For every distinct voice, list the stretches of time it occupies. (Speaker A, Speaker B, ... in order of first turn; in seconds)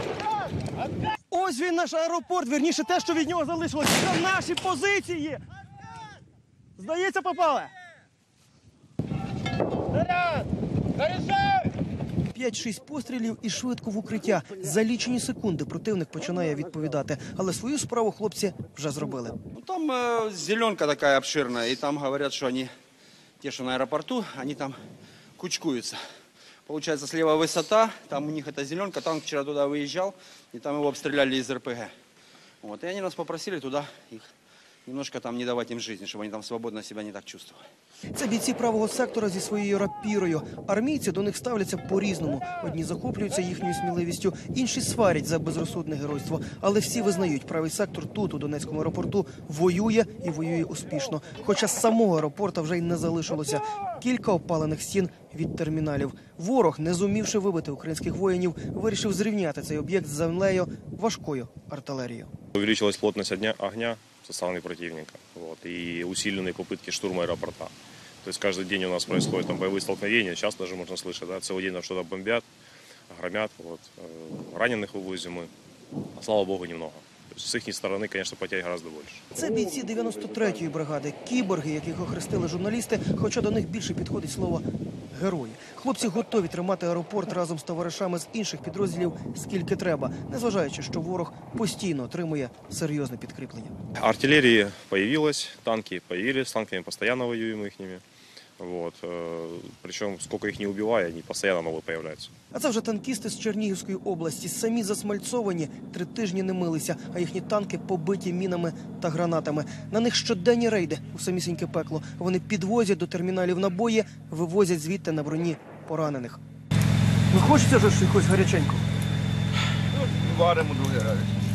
Speaker A: 1.3-5.4, 6.8-7.7, 12.3-19.4, 38.1-62.3, 79.3-93.7, 102.5-116.4, 117.3-118.8
Speaker B: 19.6-22.7, 23.4-24.8, 25.4-26.0, 26.7-31.9, 32.6-34.3, 34.9-37.6, 120.1-121.3
Speaker C: 62.5-72.5, 73.1-75.5, 76.2-79.3, 94.0-98.0, 98.6-102.3